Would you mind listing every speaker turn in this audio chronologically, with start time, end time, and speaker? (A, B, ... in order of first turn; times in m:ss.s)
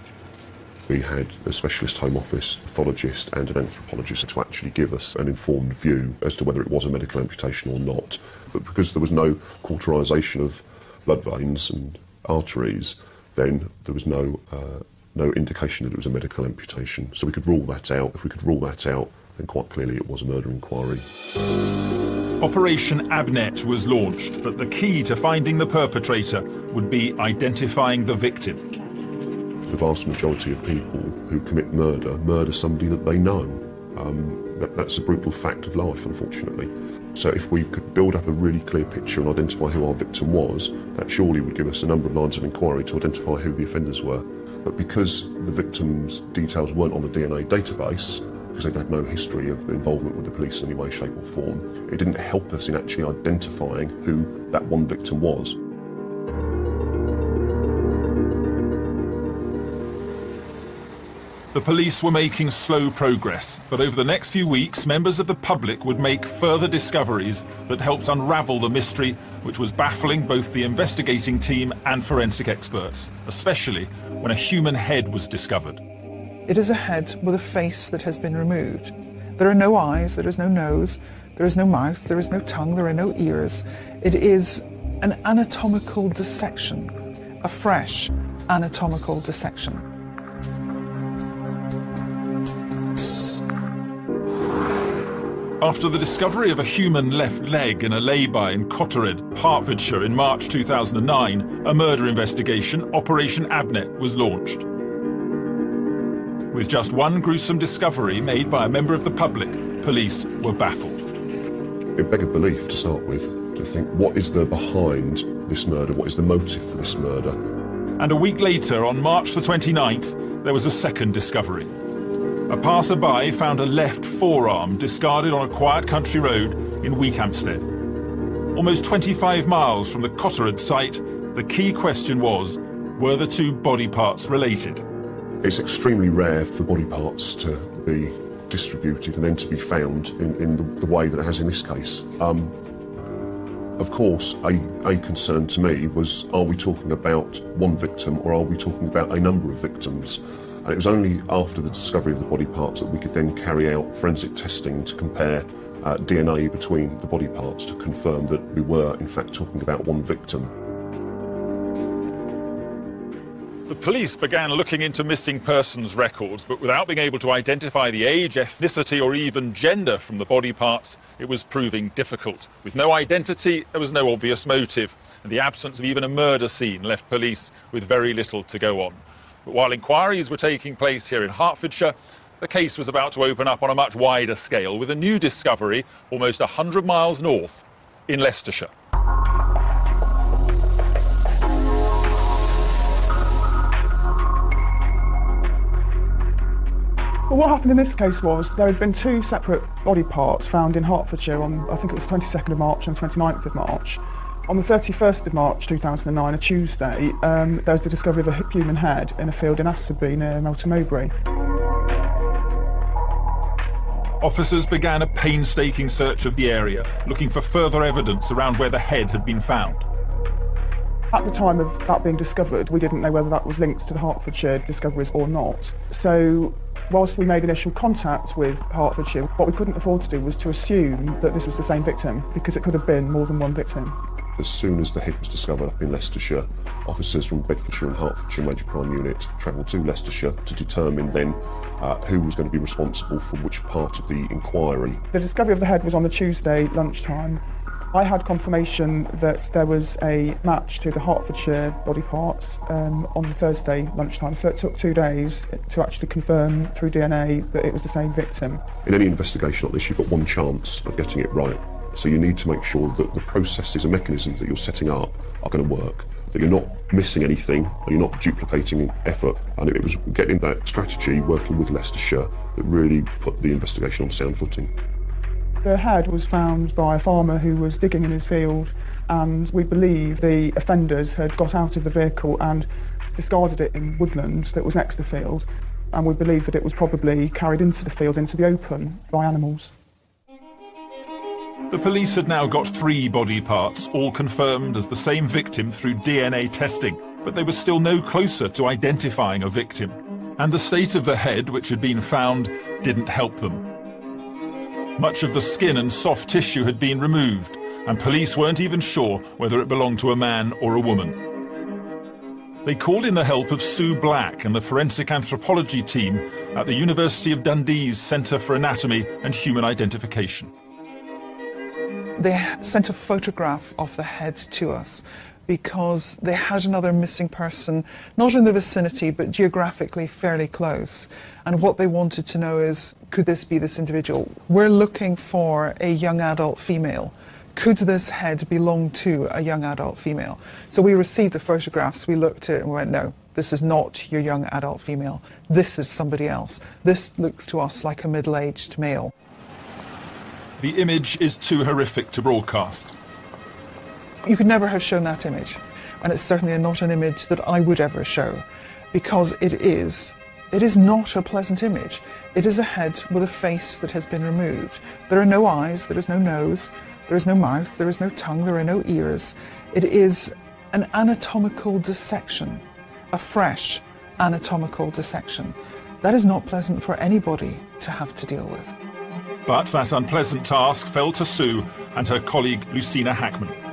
0:00.9-0:21.0 A
0:22.4-0:28.6 B
0:29.7-0:55.6 A
1:01.5-1:15.8 B
1:16.4-1:29.8 C
1:35.6-1:44.6 B
1:46.5-1:51.0 B
1:52.0-1:57.4 A
1:58.0-2:01.7 B
2:02.5-2:07.7 B
2:08.5-2:14.8 B
2:15.4-2:22.5 A
2:23.8-2:40.5 A
2:43.7-3:08.7 B
3:17.3-3:31.1 D
3:34.2-3:39.8 B
3:41.1-3:54.0 D
3:54.4-4:05.0 A
4:05.1-4:18.6 D
4:18.8-4:34.7 A
4:35.6-4:49.7 D
4:51.7-5:03.7 B
5:05.0-5:11.2 B
5:12.6-5:20.5 B
5:22.2-5:49.1 C
5:50.6-5:52.9 B
5:54.2-6:18.7 C
6:19.4-6:23.5 B